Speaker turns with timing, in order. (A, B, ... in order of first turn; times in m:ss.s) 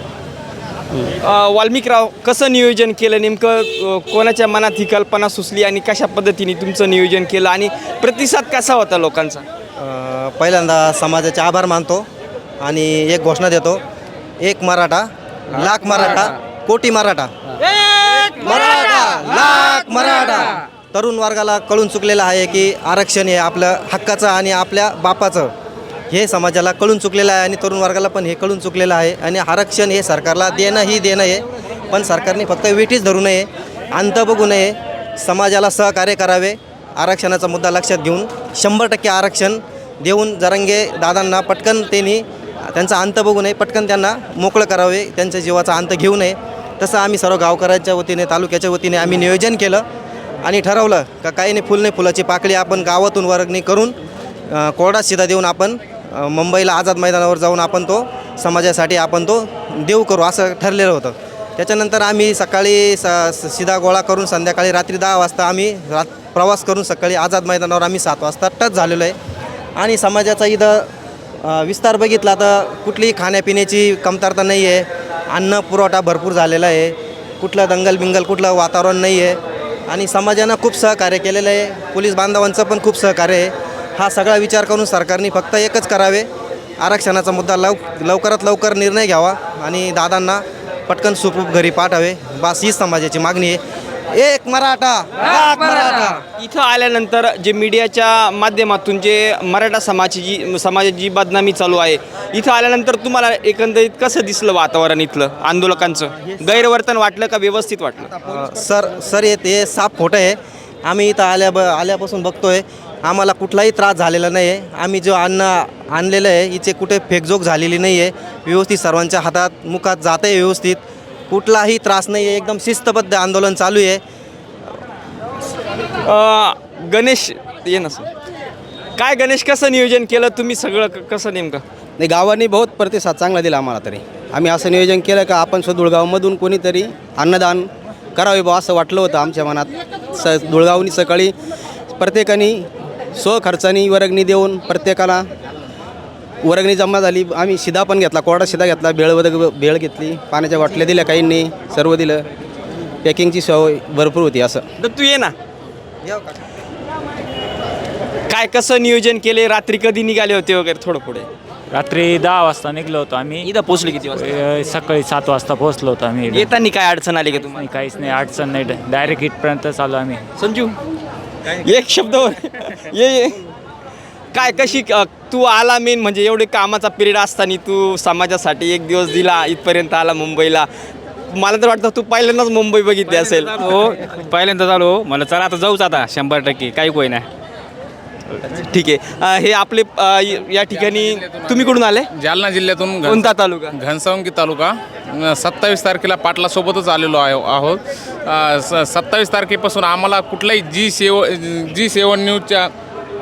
0:01.2-0:09.4 A
0:09.8-0:12.1 B
0:12.6-0:13.8 B
0:14.4-0:17.3 B
0:18.3-0:25.5 B
0:26.1-0:49.8 B
0:50.4-0:54.0 B
0:54.5-1:09.2 B
1:09.8-1:10.9 B
1:11.4-1:26.3 B
1:26.8-1:33.6 B
1:34.1-1:36.2 B
1:36.4-1:48.1 A
1:48.2-2:04.0 B
2:06.0-2:08.1 A
2:09.0-2:11.6 A
2:12.0-2:21.3 C
2:22.0-2:25.2 C
2:26.4-2:32.2 C
2:33.0-2:34.6 C
2:34.8-2:35.4 A
2:36.0-2:36.4 B
2:38.3-2:41.3 A
2:41.7-2:43.5 D
2:43.4-2:44.2 A
2:44.1-2:46.5 D
2:46.3-2:47.6 A
2:47.5-2:50.2 D
2:50.4-2:50.7 A
2:51.5-2:53.4 A
2:54.3-3:00.7 A
3:01.3-3:03.6 A
3:03.6-3:07.2 E
3:08.4-3:12.1 A
3:10.8-3:22.7 F
3:13.0-3:13.8 A